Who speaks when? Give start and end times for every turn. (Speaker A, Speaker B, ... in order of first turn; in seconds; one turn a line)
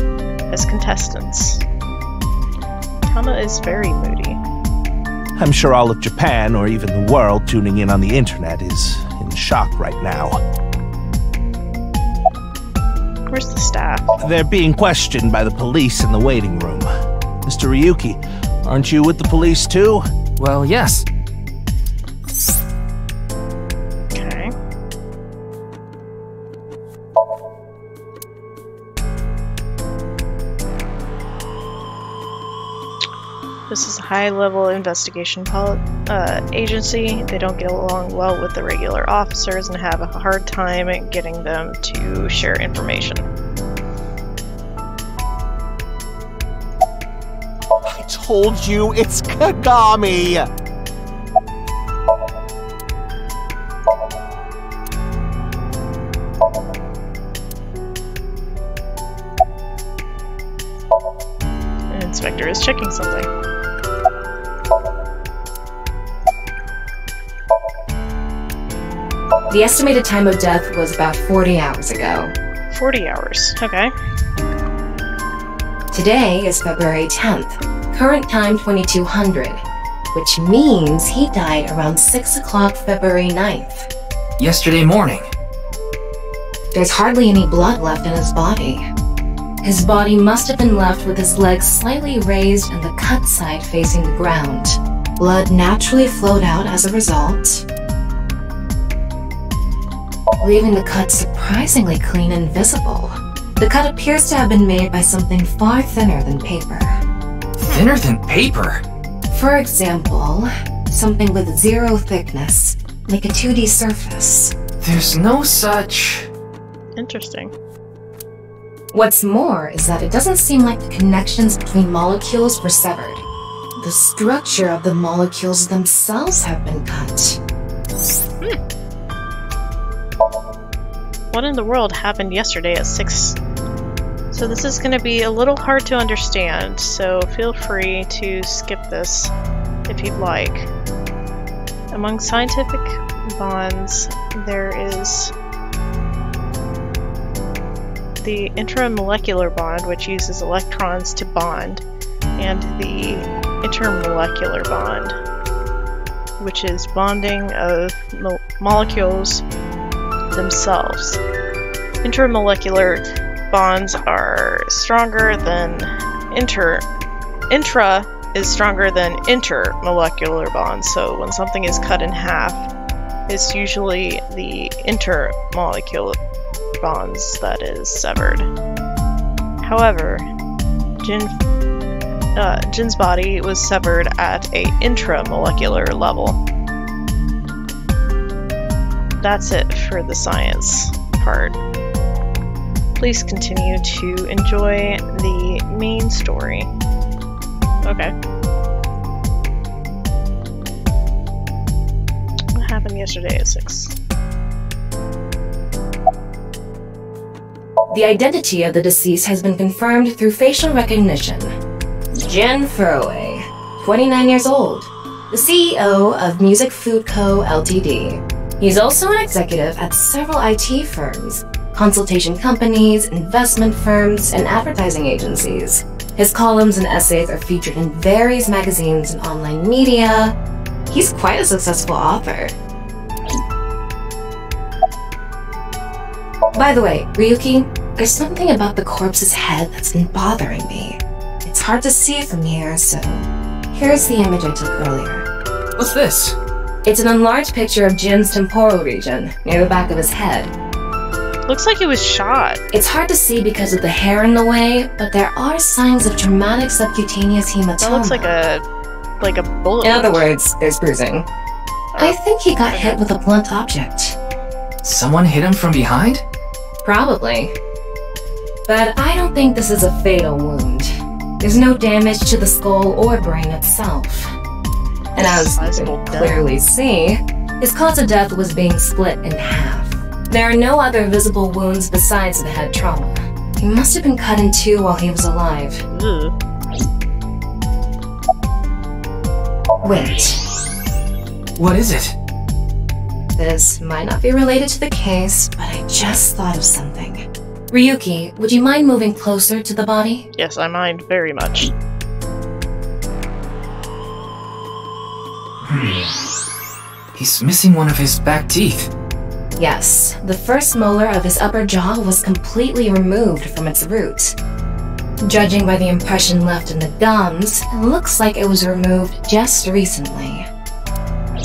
Speaker A: 0.5-1.6
Speaker A: 3.1-4.4
Speaker B: 5.4-10.4
Speaker A: 13.3-14.1
Speaker B: 14.2-16.9
Speaker B: 17.4-20.0
Speaker C: 20.4-21.1
Speaker A: 24.1-24.5
Speaker A: 33.7-43.2
Speaker D: 47.8-50.5
Speaker A: 61.9-63.3
Speaker E: 69.5-72.3
Speaker A: 72.7-73.9
Speaker E: 75.9-83.9
Speaker C: 84.4-85.3
Speaker E: 86.7-88.9
Speaker E: 89.6-97.6
Speaker E: 100.4-107.0
Speaker C: 107.6-108.8
Speaker E: 109.3-114.5
Speaker C: 114.8-116.3
Speaker A: 117.0-117.5
Speaker E: 118.9-123.2
Speaker E: 123.8-127.4
Speaker A: 131.3-133.4
Speaker A: 134.3-139.3
Speaker A: 139.9-140.7
Speaker A: 141.9-145.3
Speaker A: 148.2-151.8
Speaker A: 152.4-155.2
Speaker A: 156.4-159.4
Speaker A: 160.3-161.2
Speaker A: 162.0-166.8
Speaker A: 167.5-172.6
Speaker A: 173.3-176.2
Speaker A: 176.8-178.5
Speaker A: 179.6-180.3
Speaker A: 181.0-181.3
Speaker A: 182.3-186.4
Speaker A: 189.2-191.6
Speaker A: 193.0-196.7
Speaker A: 197.8-198.1
Speaker A: 202.5-203.9
Speaker E: 207.9-211.5
Speaker E: 212.1-230.3
Speaker E: 230.9-232.5
Speaker E: 236.5-245.3
Speaker C: 245.8-246.4
Speaker E: 246.8-250.5
Speaker A: 251.5-252.6
Speaker E: 252.7-258.3
Speaker A: 257.8-258.6
Speaker A: 259.2-260.3
Speaker E: 259.8-261.3
Speaker A: 261.9-263.0
Speaker E: 262.0-264.1
Speaker C: 264.8-266.2
Speaker E: 266.8-267.5
Speaker E: 268.7-274.4
Speaker E: 275.1-285.8
Speaker A: 275.2-276.4
Speaker A: 285.9-286.3
Speaker E: 289.8-290.4
Speaker C: 291.6-292.1
Speaker E: 293.4-300.3
Speaker A: 300.4-301.7
Speaker C: 305.6-306.1
Speaker C: 307.1-308.9
Speaker E: 309.6-314.3
Speaker E: 315.2-320.5